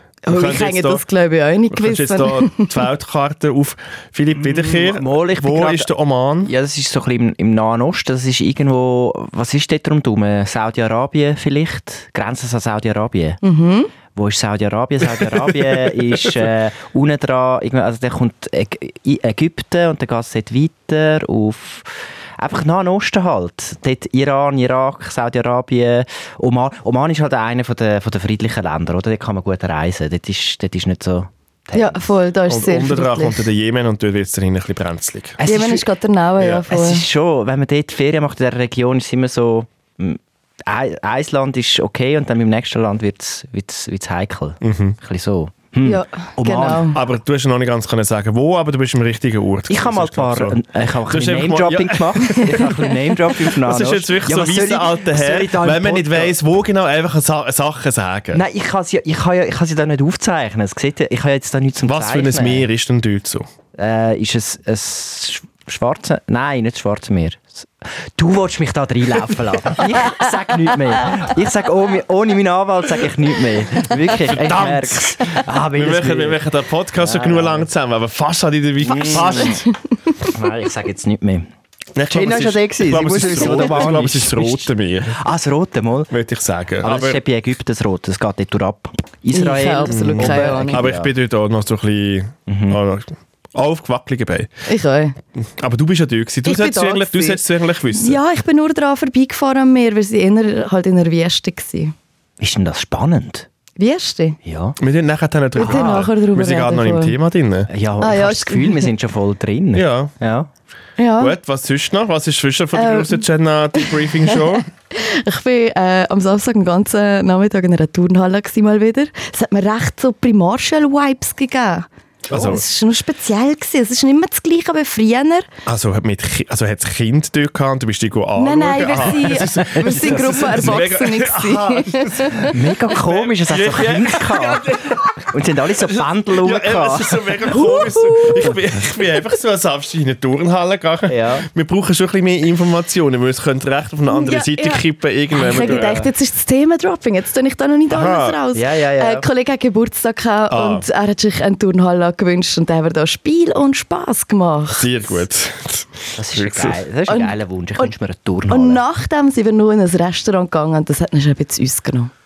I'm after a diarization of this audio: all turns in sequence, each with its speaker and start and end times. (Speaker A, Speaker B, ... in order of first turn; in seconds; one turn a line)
Speaker A: 0.2-2.7
Speaker B: 0.3-1.0
Speaker B: 1.7-6.5
Speaker C: 4.4-5.9
Speaker C: 6.4-13.4
Speaker A: 13.4-13.9
Speaker C: 14.1-32.0
Speaker A: 31.7-33.4
Speaker B: 32.5-35.4
Speaker C: 35.4-35.9
Speaker A: 35.4-37.0
Speaker C: 36.7-46.9
Speaker B: 44.6-45.0
Speaker A: 45.8-47.0
Speaker B: 46.9-58.4
Speaker C: 49.7-56.4
Speaker C: 58.3-62.7
Speaker B: 61.9-63.5
Speaker C: 63.7-76.4
Speaker B: 74.2-79.7
Speaker C: 77.0-77.7
Speaker C: 78.8-79.6
Speaker A: 79.0-79.8
Speaker C: 80.2-81.5
Speaker B: 81.9-85.2
Speaker C: 82.1-86.1
Speaker B: 86.1-87.2
Speaker C: 86.8-91.1
Speaker A: 89.3-90.8
Speaker B: 89.9-94.5
Speaker C: 92.5-92.8
Speaker A: 94.7-95.2
Speaker B: 95.4-98.2
Speaker A: 96.4-97.4
Speaker A: 97.9-101.9
Speaker C: 102.4-103.5
Speaker A: 103.8-104.4
Speaker C: 104.4-104.8
Speaker B: 104.8-107.7
Speaker A: 105.5-107.1
Speaker C: 105.6-106.0
Speaker C: 107.7-110.5
Speaker A: 108.0-108.9
Speaker B: 109.7-110.1
Speaker A: 111.0-111.3
Speaker B: 111.2-114.7
Speaker A: 112.7-125.5
Speaker B: 122.3-122.6
Speaker C: 122.3-122.6
Speaker B: 125.7-146.0
Speaker A: 128.4-132.5
Speaker C: 129.2-130.8
Speaker C: 132.4-137.3
Speaker A: 137.5-138.5
Speaker C: 141.1-141.4
Speaker A: 144.1-155.1
Speaker C: 145.5-146.1
Speaker B: 147.9-148.4
Speaker C: 148.5-149.3
Speaker B: 150.5-150.8
Speaker B: 154.7-156.8
Speaker C: 156.2-158.8
Speaker A: 157.1-157.9
Speaker A: 158.5-162.1